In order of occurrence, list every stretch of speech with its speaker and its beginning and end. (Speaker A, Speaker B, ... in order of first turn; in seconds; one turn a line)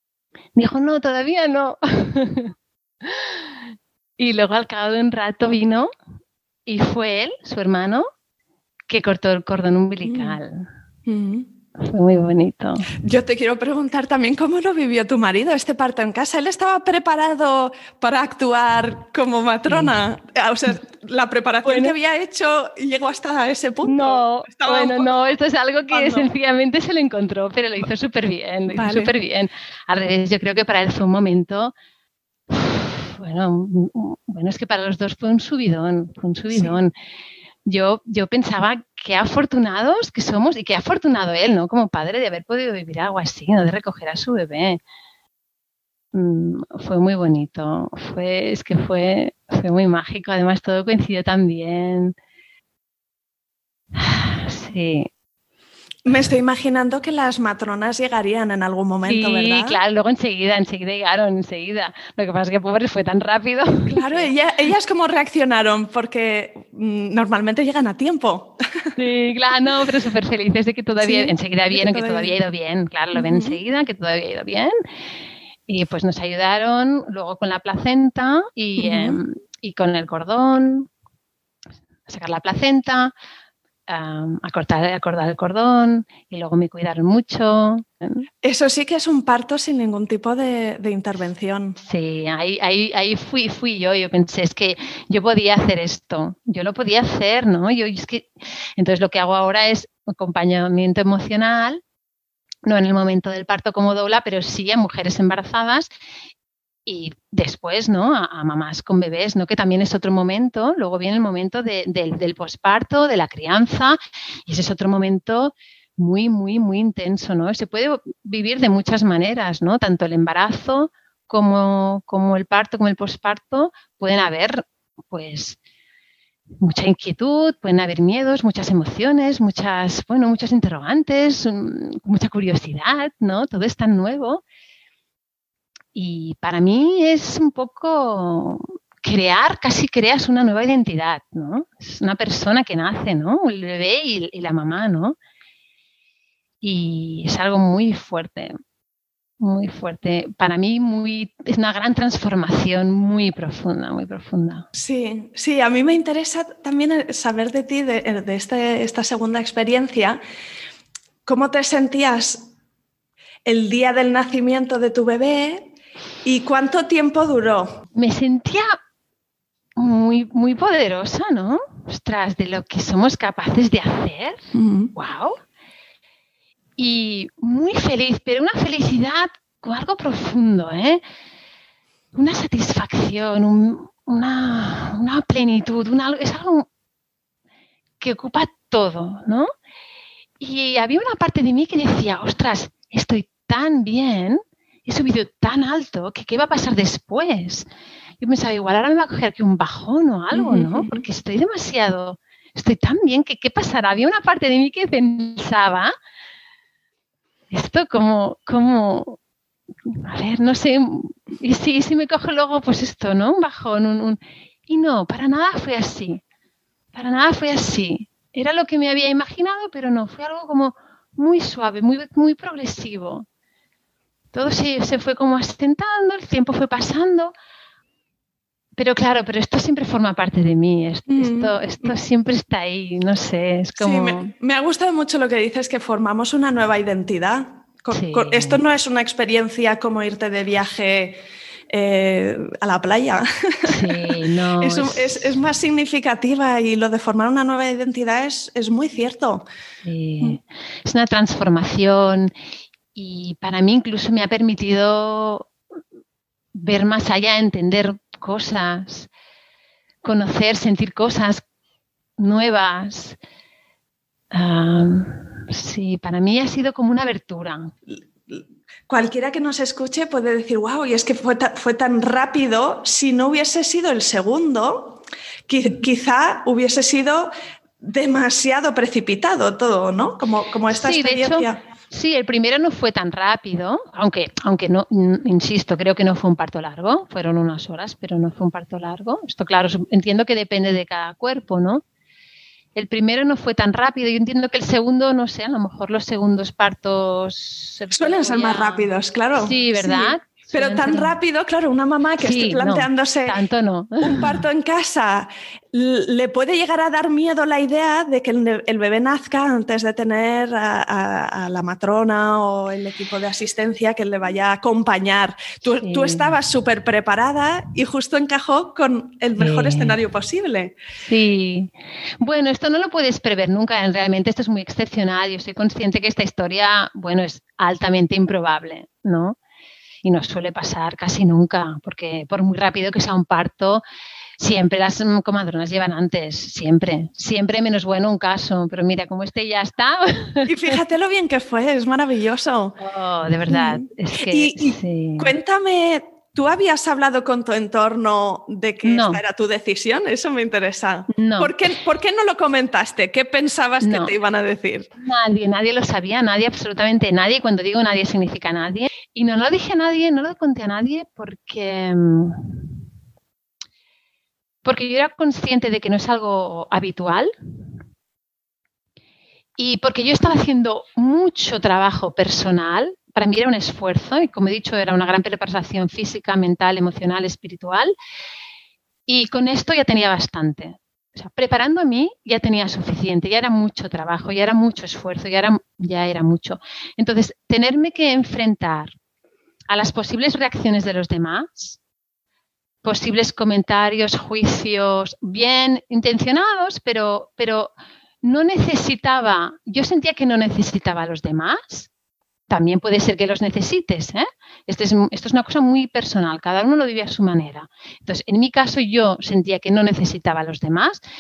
Speaker A: 0.6-2.5
Speaker A: 3.0-3.5
Speaker A: 4.2-5.9
Speaker A: 6.7-8.1
Speaker A: 8.9-10.7
Speaker B: 10.0-10.4
Speaker B: 11.1-11.5
Speaker A: 11.8-12.9
Speaker B: 13.0-25.3
Speaker A: 19.7-19.9
Speaker A: 21.6-21.9
Speaker A: 23.8-31.7
Speaker B: 25.9-26.3
Speaker B: 28.7-29.1
Speaker A: 32.5-36.9
Speaker B: 36.5-36.8
Speaker A: 37.6-44.8
Speaker A: 46.1-52.1
Speaker A: 54.0-55.1
Speaker B: 56.1-59.8
Speaker A: 59.0-64.3
Speaker B: 63.9-68.9
Speaker A: 69.0-74.7
Speaker B: 71.0-72.4
Speaker B: 73.1-73.6
Speaker A: 75.7-80.9
Speaker B: 78.8-79.2
Speaker A: 82.1-83.1
Speaker A: 83.9-88.2
Speaker B: 88.4-91.8
Speaker A: 91.8-101.8
Speaker A: 102.7-105.9
Speaker A: 106.9-125.6
Speaker A: 126.6-134.4
Speaker A: 135.9-145.2
Speaker A: 146.6-148.5
Speaker A: 149.4-154.7
Speaker B: 154.8-160.2
Speaker B: 161.3-162.4
Speaker B: 163.5-165.7
Speaker B: 166.2-167.7
Speaker A: 167.9-168.8
Speaker A: 169.8-175.4
Speaker B: 174.5-174.9
Speaker A: 176.8-181.0
Speaker A: 182.2-186.7
Speaker A: 188.0-189.5
Speaker A: 190.4-197.7
Speaker A: 198.2-205.9
Speaker B: 200.3-201.0
Speaker A: 207.5-209.2
Speaker A: 209.9-216.2
Speaker A: 216.9-223.3
Speaker A: 224.3-227.3
Speaker A: 228.8-234.3
Speaker B: 231.1-231.9
Speaker B: 233.8-249.4
Speaker A: 237.9-238.6
Speaker A: 243.7-245.3
Speaker A: 249.8-252.3
Speaker A: 252.9-255.5
Speaker A: 256.6-259.1
Speaker A: 260.0-261.4
Speaker A: 262.2-263.2
Speaker A: 264.3-267.7
Speaker B: 268.3-281.6
Speaker A: 280.7-291.8
Speaker A: 292.8-301.2
Speaker B: 297.9-303.4
Speaker A: 302.2-304.4
Speaker B: 304.0-320.8
Speaker A: 315.7-316.4
Speaker A: 319.4-320.0
Speaker A: 321.0-329.4
Speaker A: 330.0-333.8
Speaker A: 334.4-340.8
Speaker B: 340.5-342.8
Speaker A: 342.8-345.4
Speaker B: 343.5-354.9
Speaker A: 348.8-349.2
Speaker A: 351.1-351.5
Speaker A: 353.8-354.1
Speaker A: 355.0-362.7
Speaker A: 364.6-367.3
Speaker A: 369.6-377.9
Speaker A: 379.1-388.9
Speaker A: 389.7-391.8
Speaker A: 392.8-401.9
Speaker A: 402.5-411.0